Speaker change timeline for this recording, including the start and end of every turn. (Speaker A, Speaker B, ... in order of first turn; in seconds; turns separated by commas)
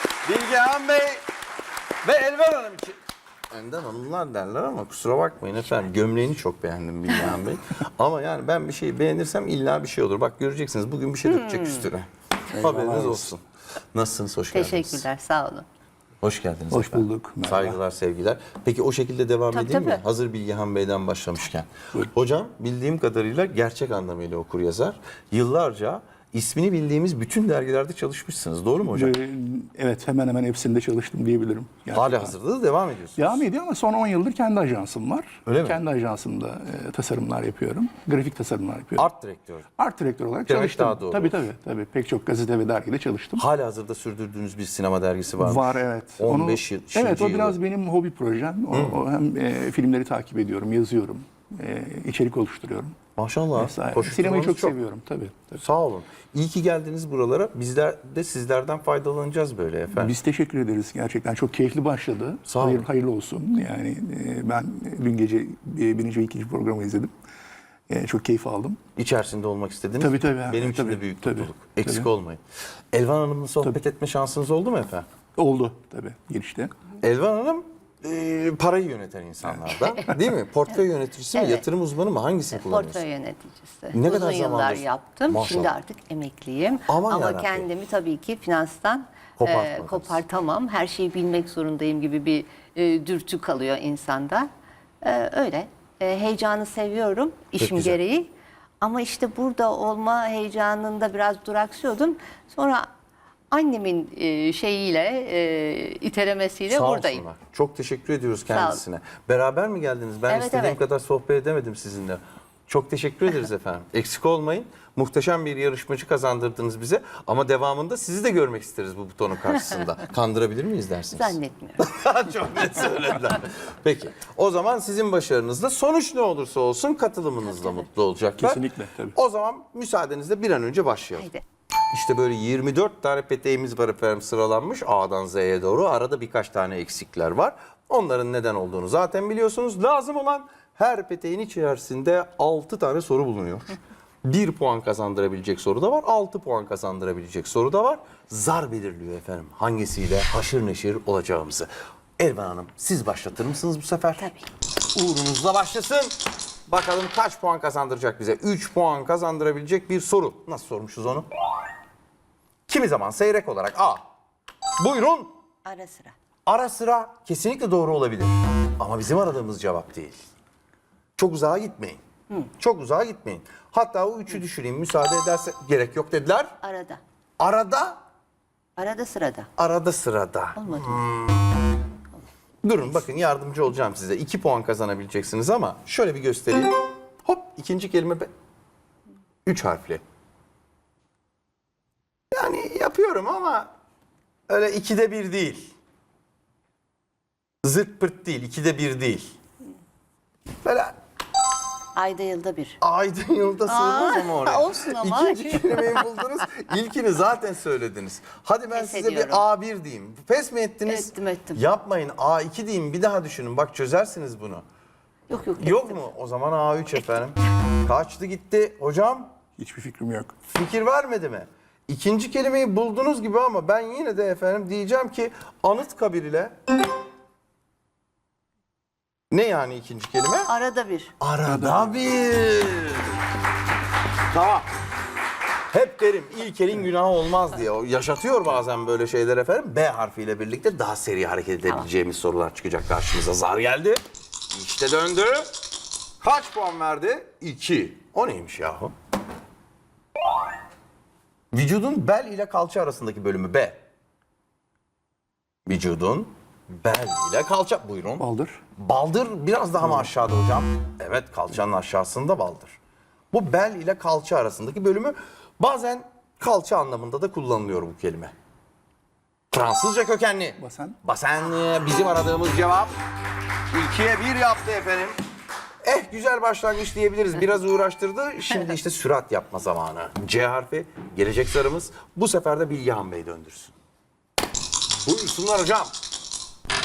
Speaker A: 0.2-1.2, Speaker A: 2.0-3.0, Speaker A: 3.5-15.1, Speaker B: 11.4-11.9, Speaker C: 12.5-13.3, Speaker B: 14.5-15.7, Speaker A: 16.2-29.1, Speaker C: 16.7-17.8, Speaker B: 19.5-20.0, Speaker C: 28.9-32.4, Speaker A: 31.9-33.4, Speaker C: 33.2-39.1, Speaker A: 35.5-35.8, Speaker A: 39.0-39.7, Speaker C: 39.8-43.5, Speaker A: 40.5-41.4, Speaker A: 43.4-47.6, Speaker C: 45.4-53.0, Speaker A: 48.7-49.0, Speaker A: 53.2-54.8, Speaker C: 53.5-55.6, Speaker A: 55.6-60.2, Speaker C: 59.9-67.1, Speaker A: 62.5-62.9, Speaker C: 67.9-68.8, Speaker A: 69.0-72.4, Speaker C: 70.0-72.1, Speaker A: 72.9-75.1, Speaker C: 75.3-76.7, Speaker A: 77.0-83.0, Speaker C: 79.5-80.1, Speaker B: 81.3-81.7, Speaker B: 82.5-94.5, Speaker A: 83.9-85.8, Speaker A: 86.9-87.7, Speaker A: 89.4-90.2, Speaker B: 95.0-98.3, Speaker A: 97.6-98.0, Speaker B: 98.8-102.9, Speaker B: 103.5-107.2, Speaker A: 106.7-131.3, Speaker B: 108.5-108.8, Speaker B: 110.3-110.8, Speaker B: 121.1-121.9, Speaker C: 128.4-129.2, Speaker A: 131.9-154.3, Speaker B: 154.2-154.5, Speaker A: 154.9-156.2, Speaker A: 156.7-161.3, Speaker A: 162.7-164.1, Speaker A: 164.8-165.3, Speaker B: 165.7-166.2, Speaker A: 166.5-170.2, Speaker A: 171.2-172.0, Speaker A: 172.6-176.6, Speaker B: 176.6-177.0, Speaker A: 177.4-178.0, Speaker B: 178.8-179.5, Speaker A: 179.6-181.5, Speaker B: 180.6-181.0, Speaker A: 182.6-188.3, Speaker A: 189.5-190.0, Speaker A: 192.3-193.7, Speaker A: 194.5-195.7, Speaker A: 197.6-199.3, Speaker A: 200.6-200.9, Speaker B: 201.9-202.8, Speaker A: 202.8-214.6, Speaker B: 203.7-206.1, Speaker B: 208.7-209.4, Speaker B: 210.9-211.6, Speaker B: 215.3-216.0, Speaker A: 215.6-219.3, Speaker C: 219.6-220.3, Speaker A: 220.5-226.6, Speaker A: 229.3-230.5, Speaker B: 230.5-231.1, Speaker A: 231.2-233.2, Speaker C: 231.5-232.0, Speaker A: 234.3-234.7, Speaker A: 235.7-244.0, Speaker A: 244.5-245.6, Speaker A: 246.2-248.9, Speaker A: 251.5-253.8, Speaker A: 255.7-258.2, Speaker C: 258.2-258.6, Speaker A: 258.8-262.8, Speaker A: 263.3-268.3, Speaker A: 269.5-272.9, Speaker C: 270.6-271.0, Speaker A: 273.7-275.2, Speaker A: 275.8-283.8, Speaker A: 285.0-285.9